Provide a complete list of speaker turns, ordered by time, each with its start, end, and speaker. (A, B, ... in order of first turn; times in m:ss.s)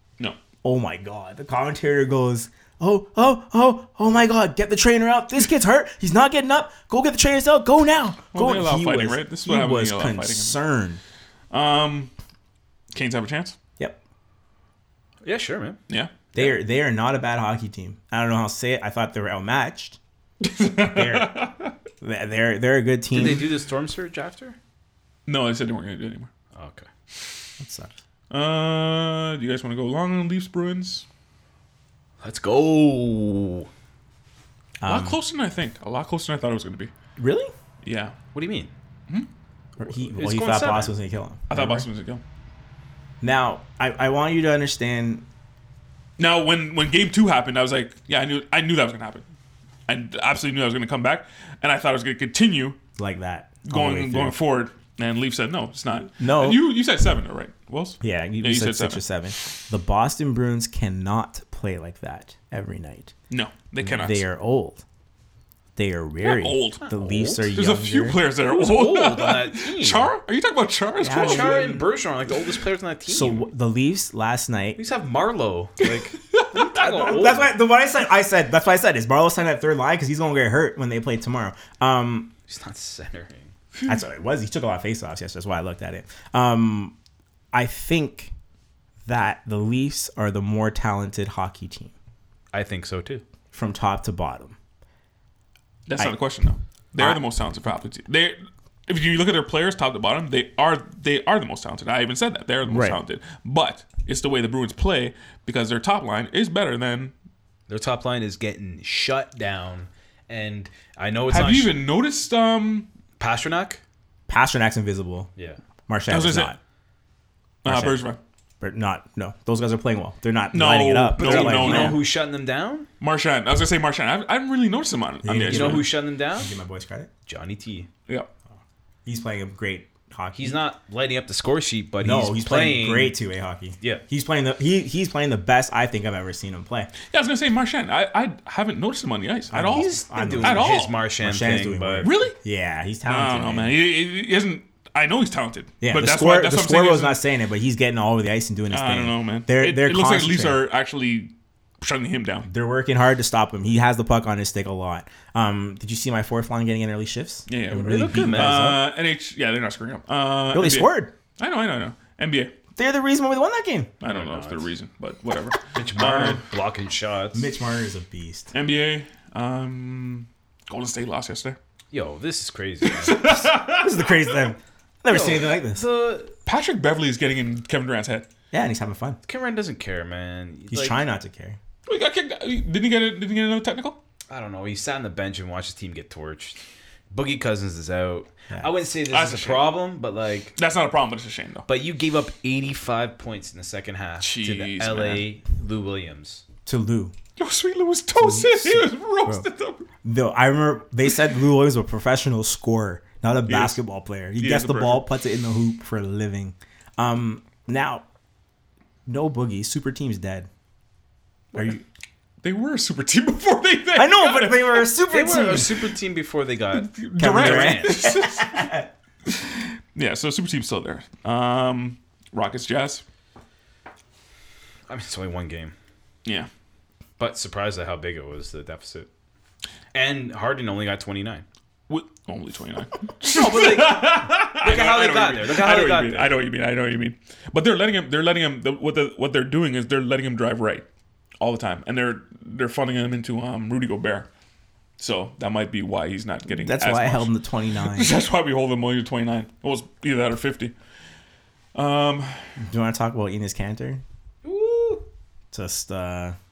0:00.6-0:11.0 A
0:08.3-0:10.6 B
0:11.5-0:12.1 B
0:12.9-0:13.6 B
0:15.2-0:15.8 C
0:15.9-0:16.5 B
0:16.3-0:20.0 A
0:20.4-0:21.7 B
0:20.8-0:21.5 A
0:22.0-0:23.6 A
0:23.1-0:24.6 C
0:25.3-0:26.3 B
0:26.5-0:26.9 C
0:27.6-0:28.0 A
0:28.3-0:31.0 B
0:32.2-0:33.7 C
0:34.8-0:35.2 A
0:34.8-0:36.9 B
0:37.2-0:37.5 A
0:37.8-0:38.1 B
0:38.3-0:38.7 C
0:39.8-0:41.9 A
0:40.1-0:40.9 C
0:41.5-0:42.2 B
0:43.2-0:45.2 A
0:46.2-0:49.2 B
0:49.9-0:52.8 B
0:53.0-0:54.4 A
0:53.6-0:59.0 B
0:56.2-0:56.7 A
0:58.0-1:03.1 A
1:03.3-1:04.2 B
1:03.8-1:04.8 A
1:05.8-1:08.2 A
1:06.2-1:06.9 B
1:06.8-1:07.5 C
1:07.5-1:11.8 B
1:08.4-1:10.1 C
1:11.0-1:11.9 A
1:11.1-1:13.4 C
1:13.1-1:14.8 A
1:14.8-1:17.6 C
1:16.7-1:22.3 A
1:22.5-1:23.5 C
1:23.8-1:26.9 A
1:27.5-1:28.3 A
1:29.0-1:31.9 A
1:32.5-1:33.2 C
1:33.5-1:34.6 A
1:35.9-1:47.1 B
1:37.0-1:37.2 A
1:42.6-1:43.0 A
1:47.7-1:51.8 C
1:51.3-1:52.9 B
1:53.2-1:53.8 C
1:54.3-1:55.3 A
1:55.9-1:56.6 A
1:56.1-1:56.5 B
1:57.6-1:58.0 A
1:57.6-1:58.2 B
1:58.6-2:02.0 A
2:00.5-2:02.0 B
2:01.2-2:02.9 C
2:03.0-2:05.9 B
2:05.2-2:07.1 A
2:05.4-2:06.5 C
2:07.3-2:07.9 C
2:09.0-2:10.6 A
2:10.4-2:13.2 C
2:12.0-2:16.9 A
2:17.0-2:21.0 B
2:19.5-2:23.8 A
2:19.7-2:22.1 C
2:22.0-2:22.4 B
2:23.0-2:27.2 B
2:25.8-2:30.6 A
2:28.7-2:32.5 B
2:32.5-2:38.8 A
2:37.5-2:42.5 B
2:37.7-2:38.8 C
2:40.5-2:41.1 A
2:42.8-2:43.9 A
2:44.0-2:46.4 B
2:44.0-2:44.7 C
2:45.7-2:47.5 C
2:47.3-2:48.5 A
2:48.5-2:51.6 B
2:51.9-2:53.5 C
2:52.8-2:54.0 B
2:53.6-2:55.8 A
2:55.1-2:56.3 C
2:56.4-2:58.3 B
2:58.5-2:59.2 A
2:59.2-3:01.0 C
3:00.7-3:01.6 A
3:01.8-3:04.0 B
3:04.3-3:10.5 C
3:09.1-3:09.8 B
3:10.6-3:11.7 B
3:11.7-3:16.4 C
3:14.2-3:15.3 B
3:16.6-3:17.1 A
3:17.4-3:19.9 B
3:18.2-3:19.4 A
3:20.0-3:28.0 A
3:23.4-3:23.8 B
3:24.4-3:25.0 B
3:29.0-3:30.5 A
3:31.5-3:31.8 A
3:32.4-3:35.0 B
3:33.9-3:35.9 A
3:35.1-3:38.0 C
3:36.7-3:43.0 B
3:37.2-3:38.9 A
3:44.9-3:45.7 C
3:47.2-3:49.1 C
3:49.9-3:51.4 C
3:51.9-4:00.8 B
3:53.2-3:56.4 C
4:01.4-4:04.3 B
4:05.0-4:07.3 B
4:06.5-4:08.2 A
4:07.8-4:10.7 B
4:11.7-4:12.4 B
4:12.6-4:14.0 A
4:14.4-4:15.1 C
4:15.5-4:16.4 A